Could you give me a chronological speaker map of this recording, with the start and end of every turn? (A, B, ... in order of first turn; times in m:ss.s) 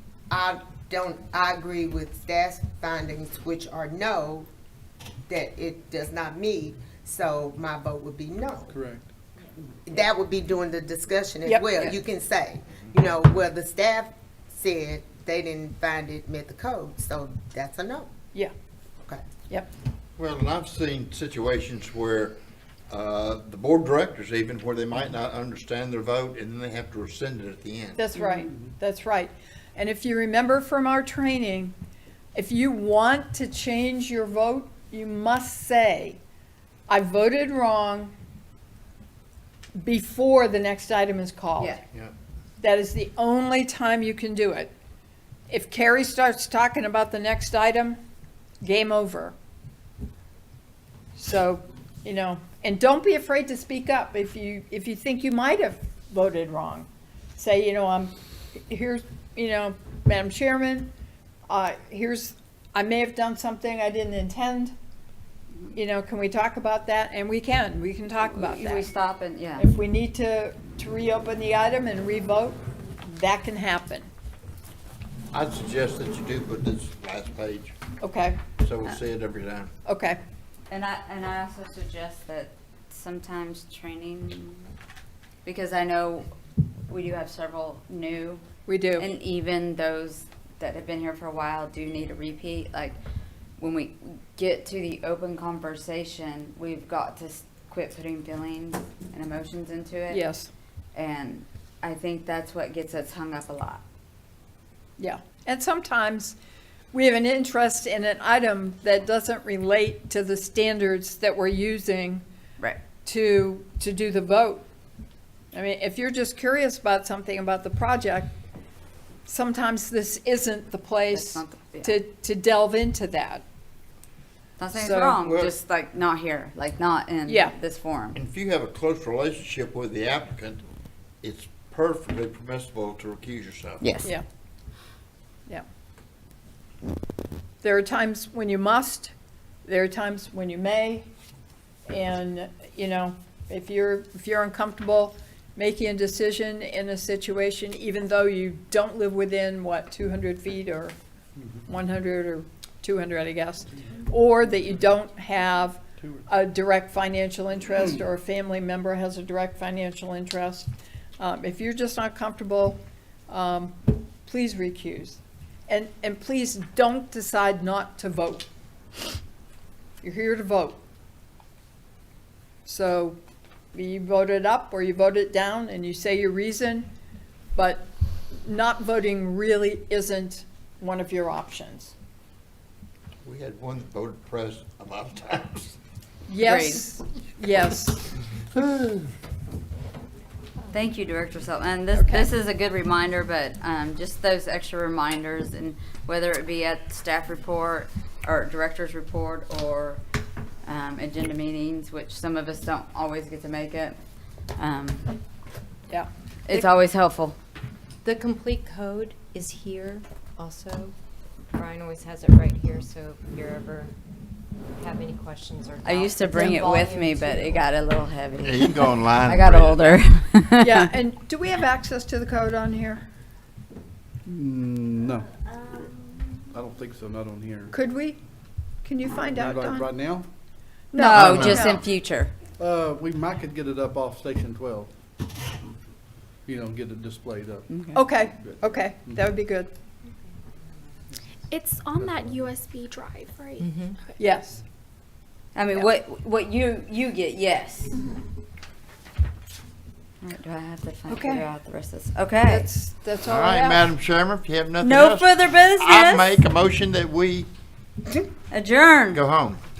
0:00.3-0:04.5 A
0:05.3-0:08.7 A
0:08.7-0:09.1 B
0:09.8-0:18.1 A
0:11.4-0:11.7 C
0:20.2-0:22.4 D
0:22.9-0:28.0 D
0:28.0-0:31.7 C
0:32.3-0:36.2 C
0:36.9-0:38.1 C
0:39.7-0:41.8 C
0:41.6-0:41.8 E
0:42.6-0:44.7 C
0:45.5-0:48.0 C
0:48.6-0:49.3 C
0:51.2-1:00.9 C
1:01.5-1:04.7 C
1:05.7-1:08.9 C
1:08.2-1:09.6 E
1:09.6-1:14.1 C
1:15.3-1:17.7 D
1:18.0-1:18.4 C
1:18.6-1:19.7 D
1:19.8-1:20.2 C
1:20.7-1:24.6 E
1:25.4-1:26.3 E
1:26.9-1:28.4 E
1:28.7-1:29.1 C
1:29.0-1:33.0 E
1:33.6-1:40.2 E
1:40.1-1:40.5 C
1:40.9-1:43.8 E
1:45.0-1:46.4 C
1:46.9-1:52.2 C
1:53.0-1:54.6 C
1:55.5-1:58.3 C
1:59.2-2:03.4 C
2:01.1-2:02.0 E
2:04.6-2:08.2 E
2:04.7-2:05.2 C
2:05.2-2:05.6 D
2:07.2-2:07.5 C
2:08.1-2:10.6 D
2:11.2-2:13.8 D
2:13.8-2:14.1 E
2:17.6-2:19.1 C
2:19.6-2:21.1 C
2:21.9-2:30.9 C
2:31.6-2:48.4 C
2:34.5-2:34.8 B
2:36.0-2:36.2 B
2:50.0-2:50.8 C
2:52.6-2:53.2 C
2:53.7-2:56.9 C
2:57.5-2:57.9 C
2:58.4-3:01.9 C
3:03.2-3:05.8 D
3:06.3-3:08.1 C
3:06.4-3:06.8 E
3:10.7-3:20.0 E
3:11.9-3:12.3 C
3:20.6-3:24.0 E
3:24.6-3:25.1 E
3:25.9-3:26.6 C
3:26.4-3:27.4 E
3:28.0-3:30.9 F
3:31.5-3:33.9 F
3:34.8-3:37.6 F
3:35.8-3:40.9 E
3:38.4-3:39.8 D
3:40.6-3:43.0 C
3:44.2-3:45.3 B
3:46.5-3:47.7 B
3:47.7-3:48.2 C
3:48.8-3:49.9 C
3:49.3-3:50.3 B
3:50.9-3:51.8 C
3:50.9-3:52.3 E
3:51.1-3:51.6 D
3:52.6-3:55.0 B
3:56.4-3:59.3 B
3:57.7-3:58.0 E
3:57.9-3:59.7 C
4:01.5-4:04.1 G
4:02.0-4:02.5 B
4:03.6-4:03.9 F
4:04.2-4:04.6 C
4:05.5-4:08.0 E
4:10.2-4:12.7 E
4:11.1-4:11.5 C
4:12.4-4:13.9 C
4:13.2-4:17.5 D
4:14.8-4:16.4 E
4:18.5-4:19.2 E
4:19.1-4:19.6 D